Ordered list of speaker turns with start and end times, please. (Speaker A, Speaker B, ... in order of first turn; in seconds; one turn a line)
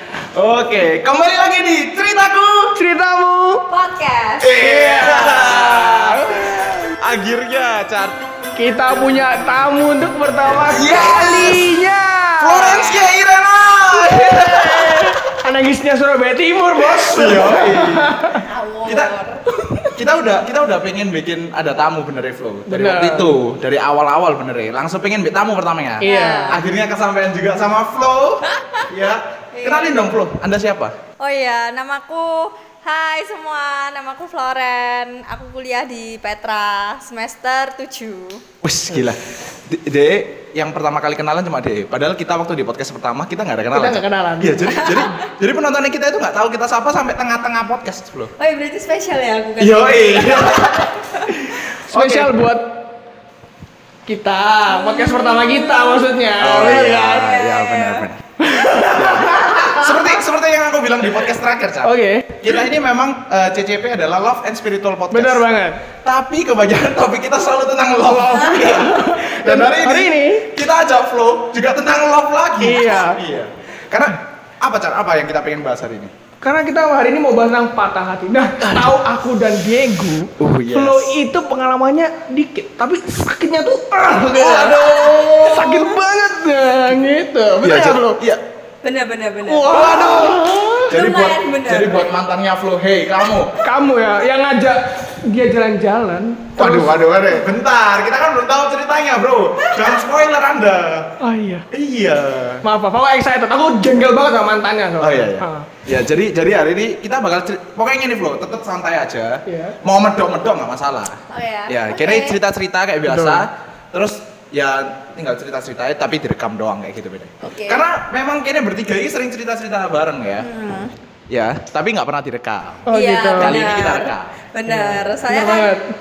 Speaker A: 0.3-2.8
Speaker B: 2.8-3.6
Speaker C: 3.7-4.5
Speaker A: 4.4-8.2
Speaker B: 4.5-6.8
Speaker B: 8.6-13.0
Speaker A: 10.5-11.7
Speaker C: 10.7-11.6
Speaker A: 12.4-15.2
Speaker B: 14.0-18.4
Speaker A: 16.9-18.2
Speaker C: 18.3-19.4
Speaker B: 19.6-19.9
Speaker A: 19.9-30.9
Speaker B: 22.7-23.3
Speaker B: 26.0-26.6
Speaker C: 26.0-26.6
Speaker C: 28.5-28.9
Speaker C: 29.5-30.1
Speaker C: 31.2-38.4
Speaker A: 38.6-48.3
Speaker B: 43.7-45.1
Speaker C: 48.4-51.3
Speaker A: 49.6-50.9
Speaker A: 51.6-52.3
Speaker B: 51.8-52.8
Speaker B: 54.0-57.3
Speaker C: 54.7-58.0
Speaker A: 56.4-58.3
Speaker B: 58.4-60.1
Speaker A: 58.8-65.5
Speaker B: 61.8-62.5
Speaker B: 65.1-65.8
Speaker A: 66.0-76.1
Speaker B: 68.0-70.5
Speaker B: 72.6-73.2
Speaker B: 76.4-88.2
Speaker A: 78.6-78.9
Speaker A: 80.4-81.1
Speaker A: 84.1-85.8
Speaker C: 84.5-85.6
Speaker A: 87.6-88.4
Speaker C: 88.8-90.3
Speaker B: 89.5-90.9
Speaker A: 89.7-93.5
Speaker C: 90.9-92.1
Speaker B: 93.6-97.5
Speaker A: 96.6-101.1
Speaker C: 99.6-99.9
Speaker B: 101.2-101.7
Speaker A: 101.7-102.6
Speaker B: 102.6-105.7
Speaker A: 105.0-120.5
Speaker B: 109.5-109.8
Speaker C: 111.3-112.4
Speaker B: 113.0-113.4
Speaker C: 117.4-117.8
Speaker C: 120.4-120.9
Speaker A: 121.3-124.3
Speaker B: 122.9-123.6
Speaker C: 122.9-125.8
Speaker B: 124.7-125.8